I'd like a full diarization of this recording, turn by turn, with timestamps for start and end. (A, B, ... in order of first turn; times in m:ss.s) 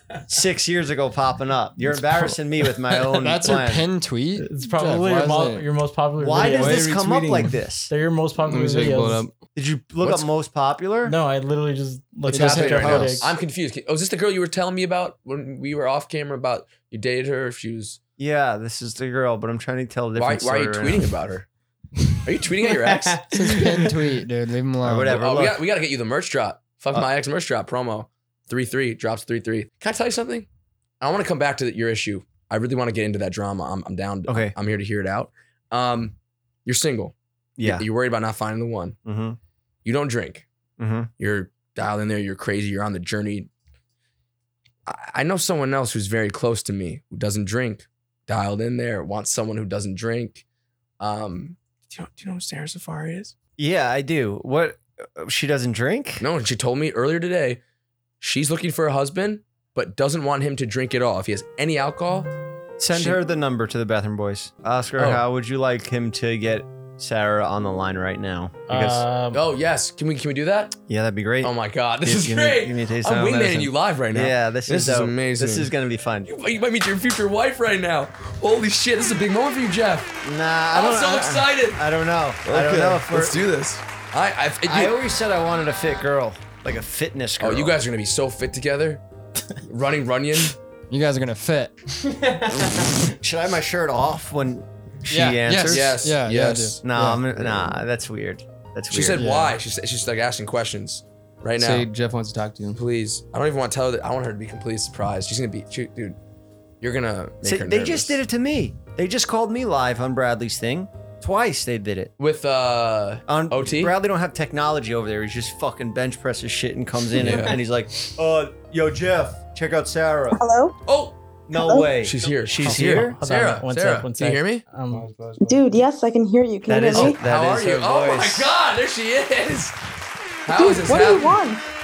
0:00.3-0:03.8 A
0:03.1-0:05.7 B
0:04.4-0:07.1 C
0:06.2-0:07.9 A
0:06.4-0:07.6 B
0:07.9-0:09.3 C
0:08.4-0:09.4 D
0:09.6-0:11.2 A
0:11.0-0:13.4 C
0:12.3-0:18.0 E
0:12.3-0:13.2 B
0:12.8-0:13.2 A
0:18.2-0:21.1 A
0:20.2-0:21.5 E
0:22.2-0:23.3 E
0:22.7-0:23.9 D
0:23.3-0:25.2 B
0:24.8-0:25.6 A
0:25.1-0:30.5 E
0:31.0-0:39.0 E
0:34.3-0:34.5 A
0:37.6-0:37.8 A
0:39.0-0:39.4 A
0:39.8-0:40.4 E
0:40.8-0:41.1 A
0:41.2-0:43.5 E
0:44.9-0:50.4 E
0:51.0-0:53.3 E
0:53.6-0:56.2 A
0:56.2-0:57.6 E
0:58.2-1:02.3 E
1:02.8-1:09.0 A
1:02.9-1:03.2 E
1:05.0-1:05.2 E
1:08.7-1:09.4 C
1:09.3-1:10.8 E
1:10.9-1:16.3 A
1:11.4-1:15.7 E
1:16.3-1:20.2 E
1:20.2-1:23.4 A
1:20.7-1:21.8 E
1:22.4-1:25.0 E
1:24.7-1:27.7 A
1:27.4-1:29.0 E
1:29.7-1:30.6 E
1:30.9-1:32.4 B
1:33.2-1:36.0 A
1:35.1-1:37.2 B
1:35.7-1:36.8 E
1:36.8-1:39.2 A
1:37.4-1:37.7 E
1:38.9-1:41.9 E
1:39.2-1:39.6 B
1:41.6-1:42.8 D
1:42.8-1:46.2 E
1:46.8-1:48.2 E
1:47.4-1:52.1 A
1:52.2-1:53.9 E
1:53.3-2:00.4 A
1:57.2-1:57.6 E
2:00.3-2:00.8 F
2:00.9-2:01.2 E
2:01.5-2:03.2 A
2:01.5-2:01.9 F
2:02.0-2:04.7 E
2:02.6-2:05.1 C
2:04.9-2:05.8 D
2:05.4-2:07.2 F
2:06.7-2:08.5 A
2:06.9-2:09.8 E
2:10.5-2:11.4 E
2:10.5-2:11.6 F